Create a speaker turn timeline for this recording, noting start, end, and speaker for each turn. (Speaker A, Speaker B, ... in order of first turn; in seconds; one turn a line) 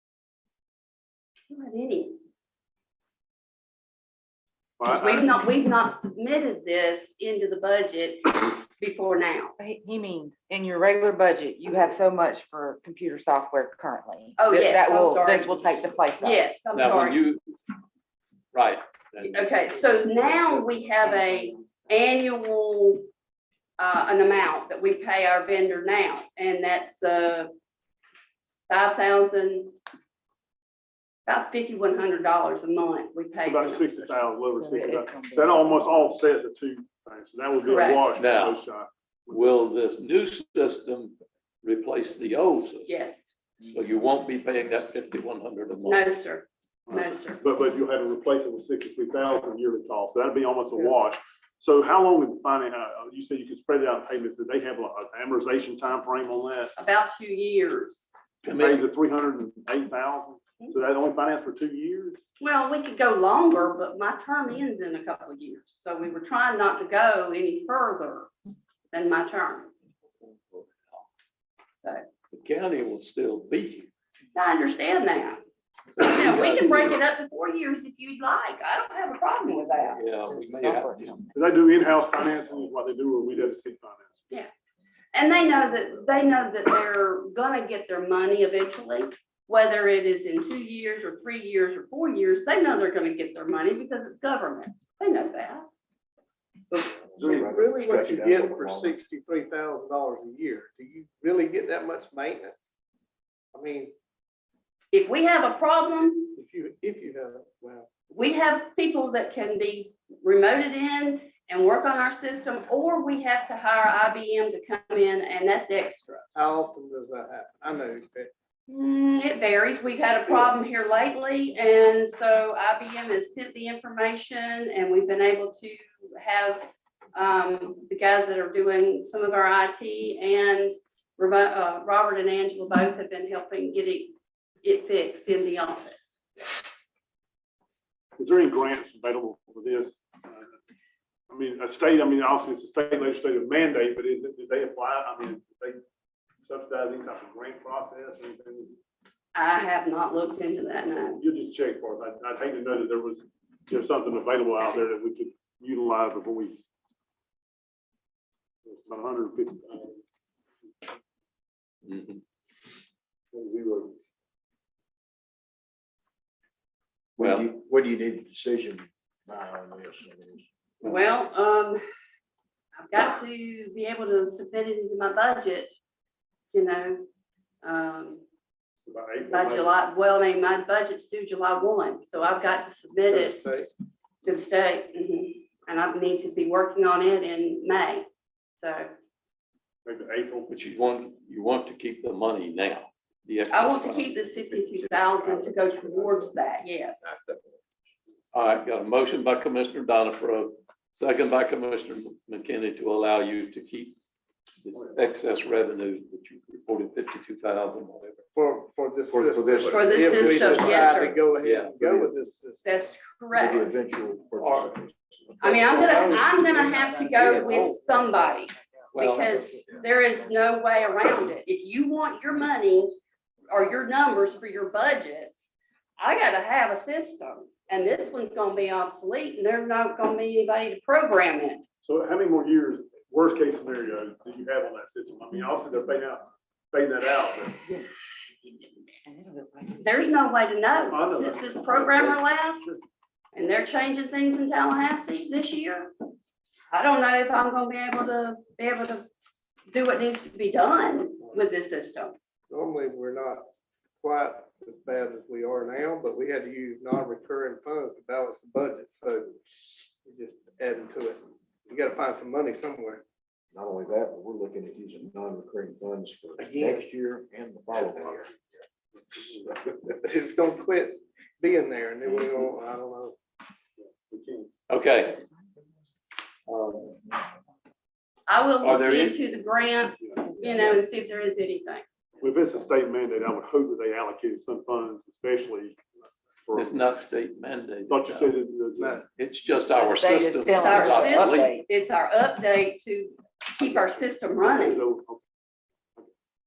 Speaker A: 1.5-2.2
Speaker B: 4.8-5.3
Speaker A: 4.9-9.6
Speaker C: 9.6-16.4
Speaker A: 14.4-17.2
Speaker D: 16.7-17.4
Speaker D: 18.5-19.8
Speaker A: 19.3-23.1
Speaker A: 23.8-27.5
Speaker A: 28.7-29.8
Speaker A: 31.2-34.0
Speaker B: 33.5-39.5
Speaker C: 34.6-36.0
Speaker A: 37.7-38.0
Speaker D: 38.1-38.6
Speaker D: 39.3-43.0
Speaker A: 42.9-43.3
Speaker D: 43.6-46.1
Speaker A: 45.8-47.4
Speaker B: 46.9-56.7
Speaker A: 56.8-58.1
Speaker D: 58.4-58.9
Speaker B: 58.5-62.2
Speaker A: 62.4-68.3
Speaker A: 68.9-69.7
Speaker D: 70.2-71.0
Speaker D: 72.3-73.9
Speaker A: 74.3-75.4
Speaker D: 76.0-77.0
Speaker A: 76.0-80.0
Speaker D: 79.9-81.1
Speaker E: 80.3-81.2
Speaker C: 80.6-81.2
Speaker B: 81.3-84.2
Speaker A: 85.1-95.7
Speaker F: 96.8-102.6
Speaker E: 97.1-99.0
Speaker B: 97.2-97.5
Speaker F: 103.5-103.9
Speaker A: 104.9-106.3
Speaker F: 106.3-107.9
Speaker A: 108.1-116.3
Speaker F: 116.3-118.3
Speaker A: 118.7-136.2
Speaker F: 120.1-120.5
Speaker B: 138.2-140.6
Speaker B: 141.3-145.8
Speaker B: 146.4-148.8
Speaker A: 149.3-151.2
Speaker B: 151.0-156.6
Speaker B: 158.7-160.0
Speaker D: 161.8-162.2
Speaker B: 163.3-163.9
Speaker E: 167.2-170.5
Speaker D: 167.2-167.5
Speaker A: 170.8-171.8
Speaker A: 172.8-175.8
Speaker A: 176.5-177.1
Speaker A: 177.6-178.2
Speaker B: 178.8-179.7
Speaker A: 179.3-183.4
Speaker F: 183.1-183.7
Speaker A: 184.2-188.1
Speaker A: 188.6-188.9
Speaker B: 189.8-190.5
Speaker D: 190.5-194.2
Speaker A: 193.5-197.1
Speaker E: 194.7-196.1
Speaker E: 197.1-197.5
Speaker D: 198.3-204.0
Speaker D: 204.6-208.2
Speaker B: 204.7-205.0
Speaker F: 208.3-212.8
Speaker E: 209.1-211.2
Speaker A: 209.7-211.2
Speaker D: 210.1-210.5
Speaker D: 211.4-211.8
Speaker E: 211.8-212.1
Speaker A: 212.7-213.7
Speaker E: 213.3-215.9
Speaker D: 214.4-214.8
Speaker A: 215.4-222.9
Speaker B: 215.9-216.2
Speaker B: 217.1-217.7
Speaker D: 218.9-219.5
Speaker A: 223.5-225.4
Speaker A: 226.0-231.6
Speaker B: 231.8-237.6
Speaker C: 239.1-239.9
Speaker A: 239.8-242.6
Speaker B: 240.9-242.8
Speaker A: 243.3-245.9
Speaker A: 246.7-249.1
Speaker A: 249.7-252.2
Speaker F: 252.5-253.5
Speaker F: 254.0-263.0
Speaker E: 263.5-268.3
Speaker F: 266.4-266.9
Speaker F: 267.7-268.2
Speaker F: 269.7-273.1
Speaker B: 273.8-274.5
Speaker D: 274.7-275.2
Speaker D: 276.5-277.0
Speaker A: 278.3-281.9
Speaker D: 278.6-279.2
Speaker B: 280.0-280.7
Speaker B: 282.2-285.8
Speaker B: 286.4-286.9
Speaker D: 286.5-288.4
Speaker B: 287.9-289.0
Speaker D: 289.0-291.6
Speaker C: 289.7-291.6
Speaker A: 290.6-294.8
Speaker B: 294.4-295.2